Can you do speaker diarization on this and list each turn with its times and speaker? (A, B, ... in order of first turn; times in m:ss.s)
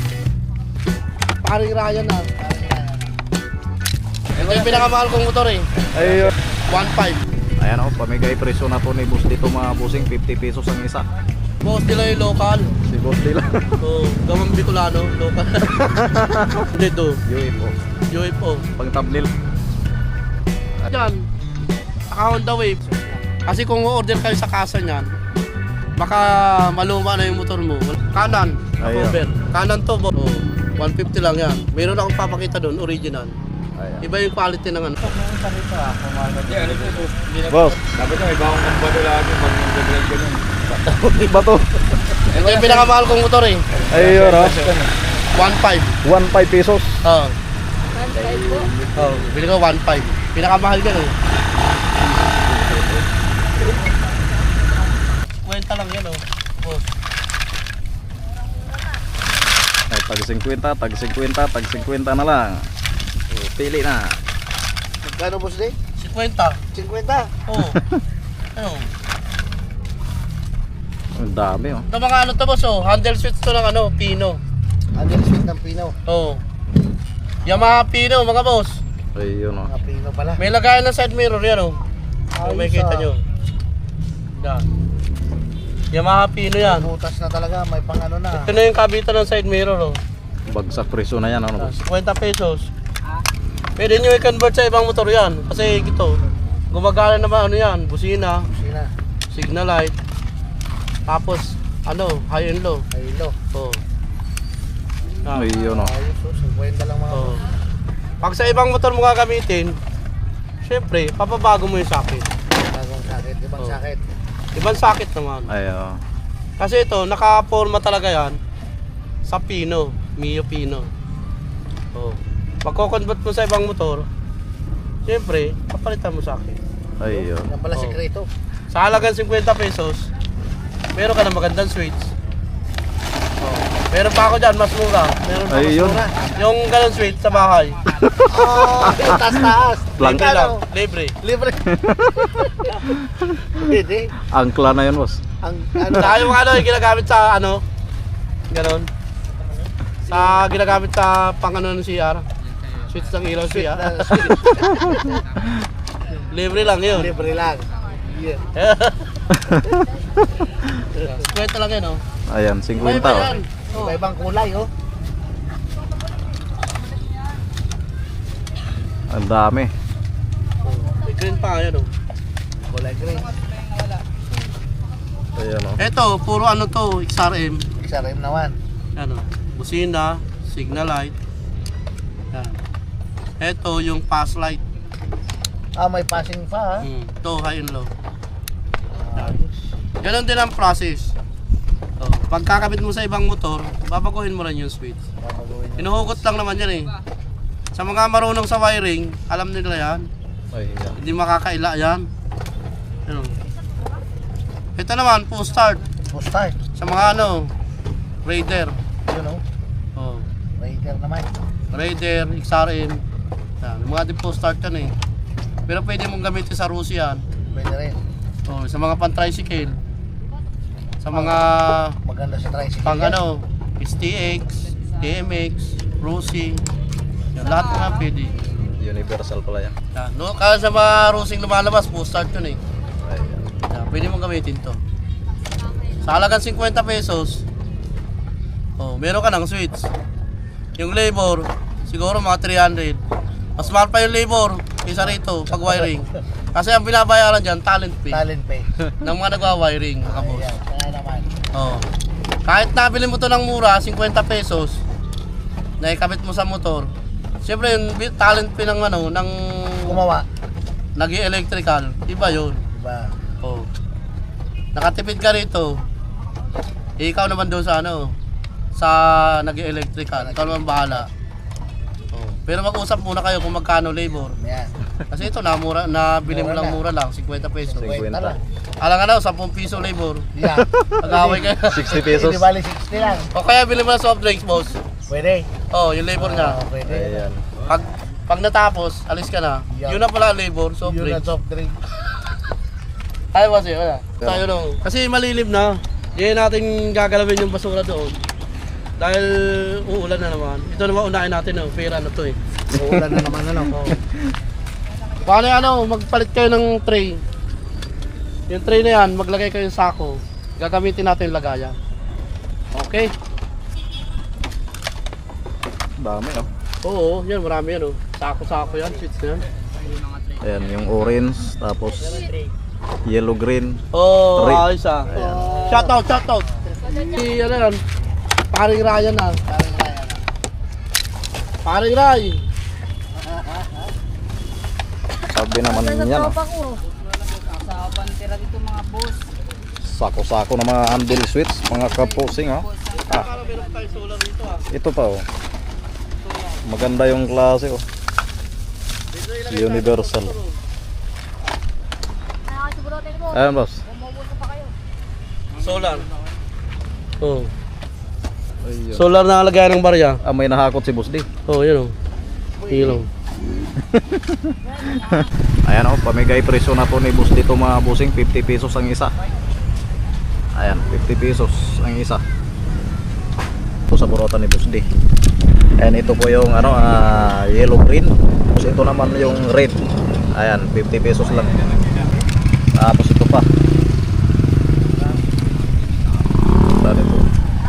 0:01.4-0:02.3 A
0:02.3-0:03.1 B
0:04.4-0:04.8 C
0:04.4-0:06.2 A
0:05.9-0:06.3 D
0:06.7-0:07.2 A
0:07.6-0:11.1 D
0:11.6-0:12.7 A
0:12.8-0:13.8 D
0:13.8-0:15.7 A
0:15.6-0:16.7 D
0:16.7-0:17.2 A
0:17.2-0:17.8 D
0:18.1-0:18.7 A
0:18.8-0:19.3 D
0:20.9-0:21.2 A
0:22.1-0:22.9 A
0:23.4-0:25.1 A
0:26.0-0:33.3 A
0:28.8-0:29.2 D
0:33.8-0:34.0 D
0:34.0-0:35.2 A
0:35.2-0:40.5 C
0:37.5-0:37.8 D
0:40.7-0:42.2 D
0:42.3-0:42.9 C
0:42.3-0:43.7 A
0:43.8-0:44.9 C
0:43.9-0:44.8 D
0:45.4-0:46.0 A
0:46.0-0:47.0 D
0:47.0-0:47.4 A
0:48.1-0:48.7 D
0:49.0-0:51.2 A
0:52.5-0:53.0 D
0:55.4-0:56.8 A
0:59.9-1:02.7 D
1:03.3-1:04.2 D
1:05.0-1:05.8 B
1:06.0-1:06.6 A
1:06.7-1:07.4 B
1:07.5-1:07.8 A
1:08.6-1:08.9 A
1:11.2-1:11.8 D
1:11.9-1:14.4 A
1:15.0-1:16.0 B
1:16.1-1:16.4 A
1:17.5-1:18.8 A
1:19.2-1:19.7 D
1:19.7-1:20.4 B
1:20.4-1:21.8 A
1:22.4-1:23.1 B
1:22.4-1:23.2 A
1:24.4-1:24.7 A
1:25.9-1:26.9 A
1:26.6-1:28.5 B
1:28.3-1:30.0 A
1:30.5-1:31.8 D
1:31.6-1:32.7 A
1:33.8-1:36.2 A
1:36.7-1:38.5 A
1:38.5-1:38.9 B
1:39.3-1:40.0 A
1:41.1-1:42.8 A
1:42.9-1:43.4 B
1:43.5-1:43.8 A
1:45.2-1:45.5 A
1:45.3-1:45.9 D
1:45.7-1:47.4 B
1:47.1-1:47.4 A
1:48.2-1:49.8 A
1:50.6-1:52.3 A
1:52.7-1:54.1 B
1:54.6-1:55.5 A
1:55.5-1:56.0 D
1:56.6-1:58.4 A
1:59.3-2:00.9 A
2:01.9-2:04.1 A
2:05.1-2:06.6 A
2:07.0-2:07.5 D
2:07.1-2:08.3 B
2:07.7-2:08.0 A
2:08.7-2:10.1 A
2:11.0-2:12.1 A
2:13.4-2:18.0 A
2:15.4-2:16.1 B
2:15.5-2:16.1 D
2:18.0-2:20.3 D
2:18.2-2:20.6 B
2:20.0-2:21.2 A
2:21.2-2:21.7 B
2:21.6-2:22.4 D
2:22.4-2:22.8 B
2:23.0-2:23.6 D
2:23.6-2:24.1 B
2:24.2-2:25.2 D
2:25.4-2:26.4 B
2:26.0-2:27.6 A
2:28.5-2:28.9 A
2:30.1-2:32.2 A
2:30.1-2:30.4 B
2:32.9-2:34.4 A
2:33.5-2:35.2 B
2:36.3-2:37.1 A
2:36.9-2:38.5 B
2:38.6-2:39.1 A
2:39.3-2:40.8 D
2:40.9-2:42.0 A
2:42.3-2:43.3 D
2:42.8-2:44.0 A
2:43.7-2:44.7 B
2:49.1-2:49.7 D
2:50.6-2:51.9 A
2:52.7-2:53.3 B
2:55.4-2:55.8 D
2:55.8-2:57.6 A
2:57.8-2:58.6 B
2:59.0-3:01.2 A
3:03.4-3:04.6 A
3:05.8-3:06.9 B
3:06.8-3:07.9 A
3:09.0-3:09.6 B
3:10.0-3:11.1 A
3:12.0-3:15.0 A
3:15.2-3:16.2 B
3:15.8-3:16.9 A
3:17.7-3:20.1 A
3:20.5-3:21.0 D
3:21.0-3:22.1 A
3:23.1-3:23.3 A
3:24.8-3:25.8 A
3:26.1-3:26.6 B
3:26.8-3:27.5 A
3:28.2-3:28.8 A
3:29.1-3:29.4 B
3:30.0-3:30.3 A
3:30.6-3:31.3 B
3:31.7-3:33.0 A
3:33.6-3:35.0 A
3:35.7-3:37.2 A
3:37.5-3:38.0 B
3:38.5-3:39.8 A
3:41.0-3:42.0 A
3:41.1-3:41.4 B
3:42.0-3:43.2 B
3:42.8-3:46.6 A
3:47.4-3:48.4 A
3:48.6-3:49.8 D
3:49.9-3:52.6 A
3:53.0-3:53.5 D
3:53.7-3:54.8 A
3:56.0-3:57.4 A
3:58.8-3:59.9 A
4:00.8-4:03.0 A
4:03.6-4:08.2 A
4:08.1-4:08.7 B
4:09.0-4:10.5 A
4:10.1-4:11.3 B
4:11.5-4:11.8 A
4:12.5-4:14.8 A
4:15.8-4:16.9 A
4:17.4-4:20.0 A
4:19.8-4:20.3 B
4:21.0-4:22.6 A
4:22.7-4:23.2 B
4:23.4-4:23.7 A
4:24.8-4:25.8 A
4:27.0-4:28.1 A
4:28.8-4:31.1 A
4:30.2-4:31.0 B
4:32.1-4:34.4 A
4:34.4-4:34.7 B
4:35.1-4:38.0 A
4:36.3-4:36.8 B
4:37.6-4:38.4 B
4:37.8-4:38.4 D
4:38.8-4:40.3 A
4:40.4-4:43.3 B
4:40.5-4:42.5 D
4:41.0-4:42.1 A
4:43.3-4:44.8 A
4:45.1-4:45.5 B
4:45.7-4:46.6 A
4:46.2-4:47.3 B
4:46.8-4:47.4 D
4:47.7-4:51.2 A
4:49.7-4:50.0 B
4:50.8-4:51.8 B
4:53.3-4:58.2 A
4:59.0-5:02.8 A
5:02.7-5:03.8 B
5:03.7-5:04.0 A
5:05.2-5:07.2 A
5:08.5-5:11.8 A
5:12.7-5:13.1 A
5:16.0-5:16.5 D
5:16.8-5:19.4 A
5:20.4-5:22.2 D
5:23.0-5:23.8 D
5:23.9-5:25.1 A
5:24.4-5:25.6 D
5:25.1-5:26.0 B
5:25.7-5:27.8 A
5:28.5-5:29.4 A
5:29.5-5:30.2 B
5:31.6-5:32.4 A
5:35.3-5:36.4 D
5:36.5-5:36.8 E
5:37.6-5:39.2 E
5:39.8-5:43.3 D
5:43.0-5:44.7 A
5:44.7-5:45.2 D
5:46.6-5:47.8 D
5:49.1-5:50.5 A
5:49.5-5:50.4 D
5:52.6-5:53.2 E
5:53.2-5:53.8 D
5:54.2-5:54.5 E
5:55.6-5:56.1 A
5:57.2-5:57.5 A
5:58.6-5:59.1 D
5:58.9-6:00.2 A
6:00.2-6:01.3 D
6:01.5-6:01.9 A
6:02.6-6:03.0 B
6:02.7-6:03.1 A
6:03.8-6:09.1 D
6:10.6-6:12.2 D
6:13.9-6:14.8 D
6:15.8-6:19.8 D
6:20.3-6:21.6 D
6:22.7-6:23.5 D
6:26.8-6:27.2 D